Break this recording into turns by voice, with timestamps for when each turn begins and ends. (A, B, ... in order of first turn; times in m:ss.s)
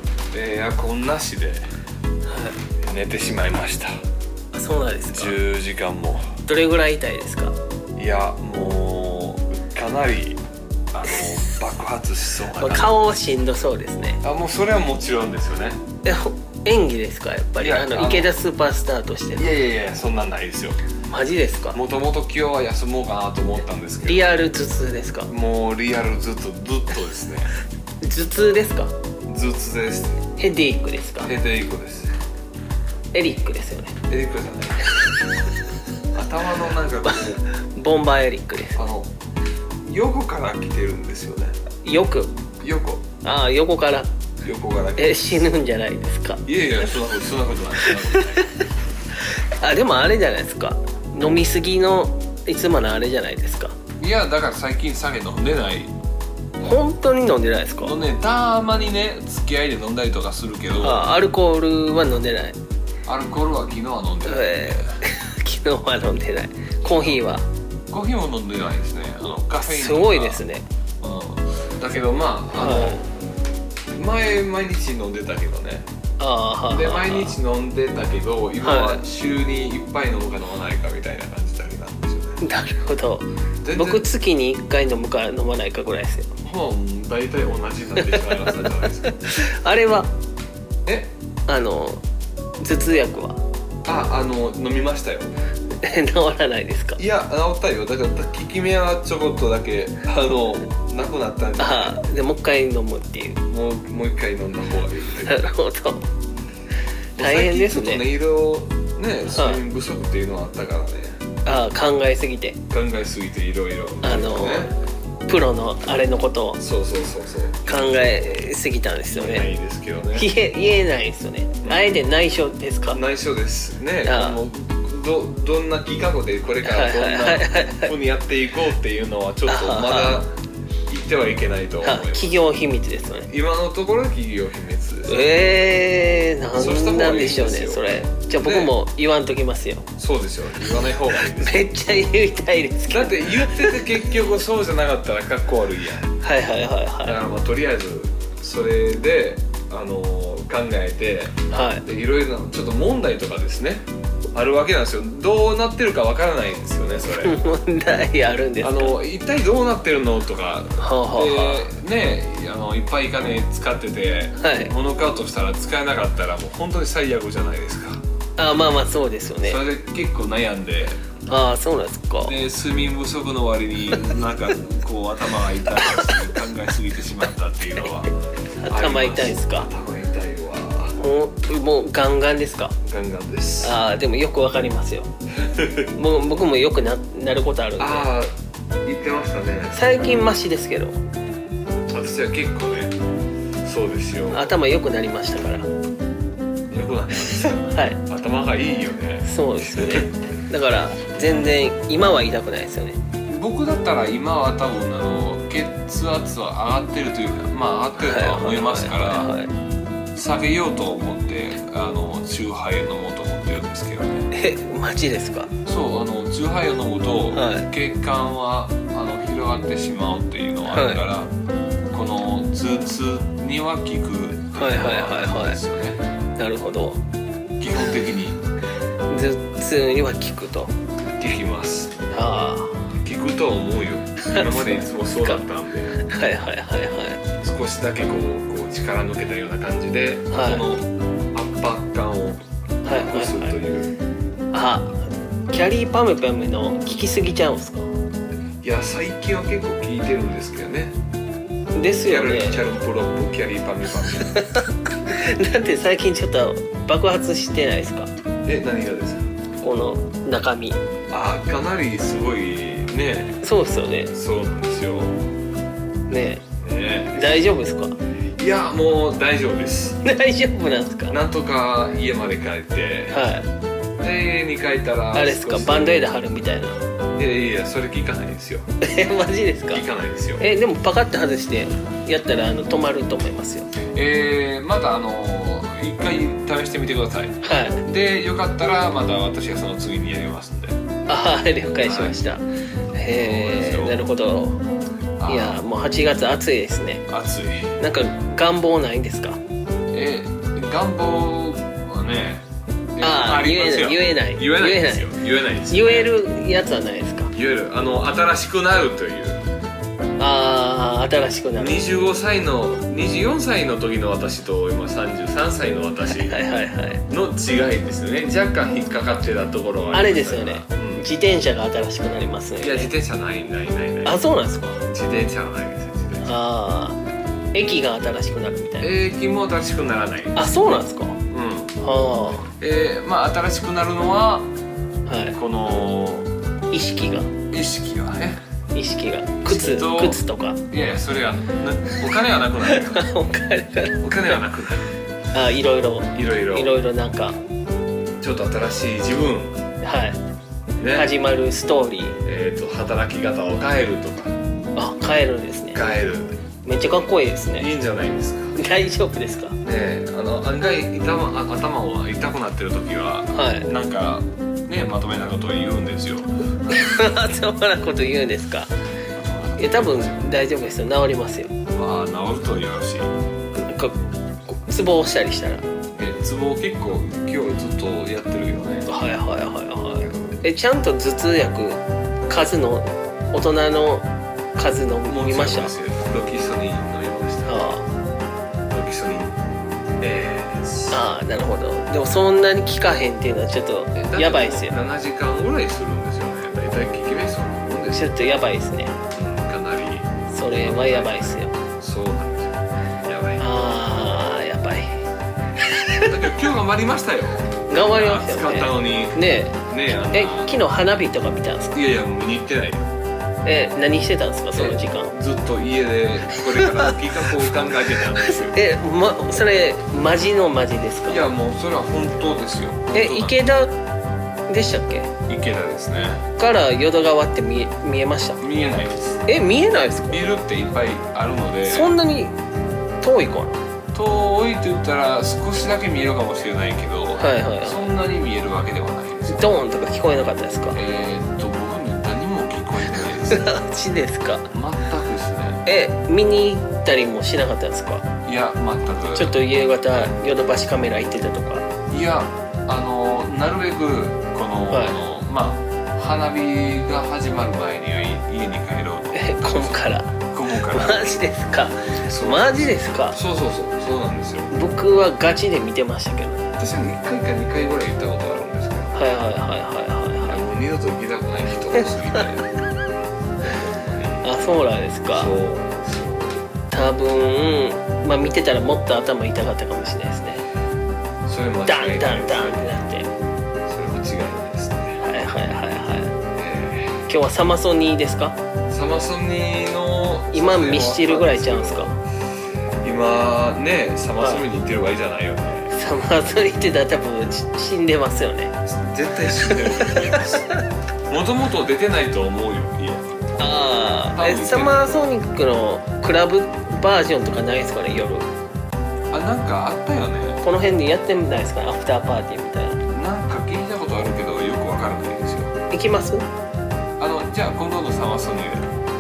0:00.3-0:01.6 A
0:02.3-0:02.6 B
0:02.8-0:03.9 A
0:04.5-0:05.4 B
0:05.1-0:06.3 A
0:06.4-0:07.6 B
0:08.0-0:13.1 A
0:11.1-0:11.6 B
0:12.6-0:14.2 B
0:14.2-0:15.8 A
0:16.0-0:19.5 B
0:17.6-0:18.3 A
0:19.4-0:20.8 A
0:21.1-0:21.8 B
0:21.7-0:24.4 A
0:24.0-0:25.3 B
0:25.3-0:27.5 A
0:28.0-0:28.9 B
0:29.3-0:30.2 A
0:30.4-0:31.3 B
0:31.2-0:32.1 A
0:33.1-0:34.0 B
0:34.1-0:34.8 A
0:36.1-0:37.4 A
0:37.1-0:38.9 B
0:38.7-0:39.1 A
0:39.8-0:41.5 A
0:41.8-0:42.4 B
0:42.6-0:43.0 A
0:43.2-0:44.1 B
0:44.4-0:45.5 A
0:45.0-0:46.4 B
0:46.4-0:48.5 A
0:47.8-0:48.6 B
0:49.2-0:53.8 B
0:54.0-0:55.9 A
0:56.6-0:57.9 B
0:57.8-1:01.1 A
1:00.8-1:02.6 B
1:03.0-1:04.9 A
1:04.2-1:07.4 B
1:06.8-1:07.2 A
1:07.9-1:10.4 A
1:09.6-1:10.6 B
1:11.0-1:13.1 A
1:12.5-1:13.0 B
1:13.9-1:15.9 A
1:16.2-1:17.4 B
1:16.7-1:22.4 A
1:18.6-1:19.0 B
1:22.4-1:26.3 B
1:23.6-1:24.0 A
1:26.4-1:29.1 A
1:28.0-1:30.1 B
1:30.8-1:31.1 A
1:31.5-1:32.0 B
1:32.6-1:33.4 B
1:33.8-1:35.3 A
1:35.8-1:37.0 B
1:37.0-1:42.0 A
1:41.6-1:43.4 B
1:43.5-1:45.5 A
1:45.2-1:46.0 B
1:47.2-1:51.2 A
1:47.2-1:48.0 B
1:49.3-1:49.6 B
1:51.4-1:52.6 B
1:52.7-1:54.7 A
1:54.0-1:54.7 B
1:55.3-1:56.6 B
1:56.6-1:58.4 A
1:57.7-1:59.5 B
1:59.1-2:00.3 A
2:00.1-2:03.0 B
2:01.6-2:01.9 A
2:02.9-2:10.3 A
2:04.0-2:04.4 B
2:06.6-2:07.9 B
2:09.5-2:10.2 B
2:10.9-2:12.4 A
2:11.8-2:13.3 B
2:13.3-2:15.2 A
2:15.1-2:19.9 B
2:16.5-2:18.7 A
2:20.0-2:21.6 A
2:20.9-2:23.8 B
2:22.9-2:26.1 A
2:26.2-2:27.2 B
2:27.0-2:37.4 A
2:31.5-2:31.8 B
2:37.2-2:39.0 B
2:38.6-2:48.0 A
2:40.8-2:41.7 B
2:44.4-2:44.7 B
2:48.4-2:49.6 B
2:49.4-2:51.0 A
2:51.3-2:52.3 B
2:52.2-2:58.1 A
2:58.6-2:59.7 B
2:58.7-3:01.0 A
3:01.0-3:02.7 B
3:02.8-3:03.8 A
3:03.6-3:05.1 B
3:05.4-3:05.9 A
3:05.9-3:08.1 B
3:07.8-3:08.3 A
3:08.8-3:09.9 A
3:09.7-3:11.0 B
3:11.9-3:13.0 A
3:13.6-3:14.5 A
3:14.3-3:15.7 B
3:16.7-3:20.1 A
3:17.3-3:18.0 B
3:19.2-3:23.0 B
3:23.3-3:29.4 A
3:28.0-3:29.5 B
3:30.1-3:34.3 A
3:34.3-3:35.5 B
3:35.6-3:41.3 A
3:37.3-3:37.7 B
3:40.7-3:41.0 B
3:41.9-3:46.0 A
3:44.6-3:45.6 B
3:46.4-3:47.0 B
3:47.6-3:48.4 A
3:49.1-3:50.7 B
3:51.2-3:51.9 A
3:52.1-3:52.9 B
3:53.0-3:56.0 A
3:54.3-3:55.4 B
3:56.0-3:57.2 B
3:57.4-4:03.9 A
4:00.3-4:00.6 B
4:02.8-4:03.6 B
4:04.5-4:05.0 B
4:05.5-4:07.9 B
4:08.6-4:11.0 A
4:11.7-4:12.6 B
4:12.0-4:14.4 A
4:14.2-4:18.1 B
4:18.4-4:19.3 A
4:19.6-4:20.8 B
4:21.1-4:23.4 A
4:23.4-4:24.1 B
4:24.1-4:25.1 A
4:26.1-4:26.4 B
4:26.6-4:27.4 A
4:27.1-4:28.0 B
4:28.4-4:30.0 A
4:30.0-4:31.2 B
4:31.1-4:33.2 A
4:33.1-4:33.5 B
4:34.0-4:36.1 A
4:35.1-4:36.8 B
4:37.2-4:38.6 A
4:38.8-4:39.8 B
4:39.7-4:40.4 A
4:40.4-4:43.7 B
4:43.9-4:50.8 A
4:47.4-4:47.8 B
4:51.1-4:52.4 B
4:51.8-4:52.2 A
4:52.9-4:54.6 B
4:53.0-4:54.0 A
4:55.2-4:55.7 A
4:55.3-4:57.0 B
4:57.1-4:57.8 A
4:57.8-4:59.4 B
4:59.9-5:06.1 A
5:03.0-5:05.1 B
5:05.7-5:07.3 B
5:07.3-5:09.4 A
5:10.2-5:11.8 B
5:11.6-5:16.4 A
5:16.1-5:17.0 B
5:17.1-5:21.0 A
5:19.9-5:22.9 B
5:22.6-5:24.2 A
5:24.0-5:24.8 B
5:24.9-5:26.4 A
5:26.2-5:27.0 B
5:27.5-5:28.9 B
5:28.8-5:30.8 A
5:30.4-5:31.2 B
5:31.3-5:31.8 A
5:31.8-5:32.5 B
5:32.5-5:34.5 A
5:35.1-5:35.4 B
5:35.3-5:36.3 A
5:36.7-5:37.3 B
5:37.5-5:38.4 A
5:38.7-5:40.6 B
5:39.5-5:43.0 A
5:42.6-5:44.4 B
5:44.0-5:44.9 A
5:45.3-5:47.4 B
5:46.1-5:46.8 A
5:48.2-5:49.6 A
5:49.8-5:50.2 B
5:50.8-5:51.1 A
5:50.9-5:52.2 B
5:52.2-5:54.4 A
5:54.8-5:55.8 B
5:55.7-5:56.4 A
5:56.6-5:57.7 B
5:57.6-5:58.6 A
5:58.6-5:59.6 B
5:59.6-6:06.4 A
6:03.3-6:03.7 B
6:06.7-6:08.7 B
6:09.1-6:10.3 A
6:09.6-6:11.5 B
6:11.7-6:13.1 A
6:13.5-6:15.6 B
6:15.9-6:18.9 A
6:18.8-6:25.7 B
6:20.0-6:20.4 A
6:25.0-6:27.5 A
6:27.4-6:27.8 B
6:28.7-6:29.4 A
6:30.0-6:31.0 A
6:30.9-6:34.7 B
6:33.9-6:38.0 A
6:37.9-6:39.0 B
6:39.1-6:43.4 A
6:40.3-6:41.5 B
6:43.4-6:45.0 B
6:45.6-6:46.1 B
6:46.0-6:50.5 A
6:47.7-6:51.7 B
6:51.7-6:52.9 A
6:53.4-6:55.1 B
6:54.5-6:58.6 A
6:56.4-6:57.0 B
6:58.2-7:01.3 B
7:01.1-7:03.4 A
7:02.9-7:03.7 B
7:04.5-7:05.1 B
7:05.3-7:06.2 A
7:06.4-7:08.4 B
7:08.4-7:09.2 A
7:09.2-7:10.2 B
7:10.1-7:11.9 A
7:11.6-7:12.4 B
7:13.0-7:13.6 B
7:13.9-7:19.6 A
7:17.2-7:17.9 B
7:19.3-7:20.8 B
7:20.7-7:23.6 A
7:23.3-7:24.5 B
7:24.5-7:25.6 A
7:25.6-7:28.1 B
7:28.2-7:29.3 A
7:29.1-7:31.6 B
7:31.9-7:41.2 A
7:34.7-7:35.0 B
7:39.1-7:43.2 B
7:42.0-7:44.5 A
7:44.5-7:46.5 B
7:46.6-7:49.1 A
7:48.9-7:50.4 B
7:50.2-7:52.5 A
7:53.4-7:54.3 A
7:54.2-7:55.3 B
7:55.1-7:56.4 A
7:56.7-8:00.4 B
8:01.2-8:02.7 A
8:01.7-8:03.1 B
8:03.7-8:05.0 A
8:05.0-8:06.1 B
8:06.4-8:07.0 A
8:07.1-8:08.4 B
8:08.7-8:12.0 A
8:10.3-8:11.9 B
8:12.8-8:15.7 A
8:14.2-8:14.4 B
8:15.7-8:18.5 B
8:18.6-8:20.5 A
8:19.4-8:20.6 B
8:21.1-8:23.0 A
8:23.4-8:28.3 B
8:24.1-8:24.8 A
8:29.1-8:30.4 A
8:30.4-8:32.8 B
8:32.9-8:35.5 A
8:35.7-8:36.2 B
8:37.0-8:38.7 A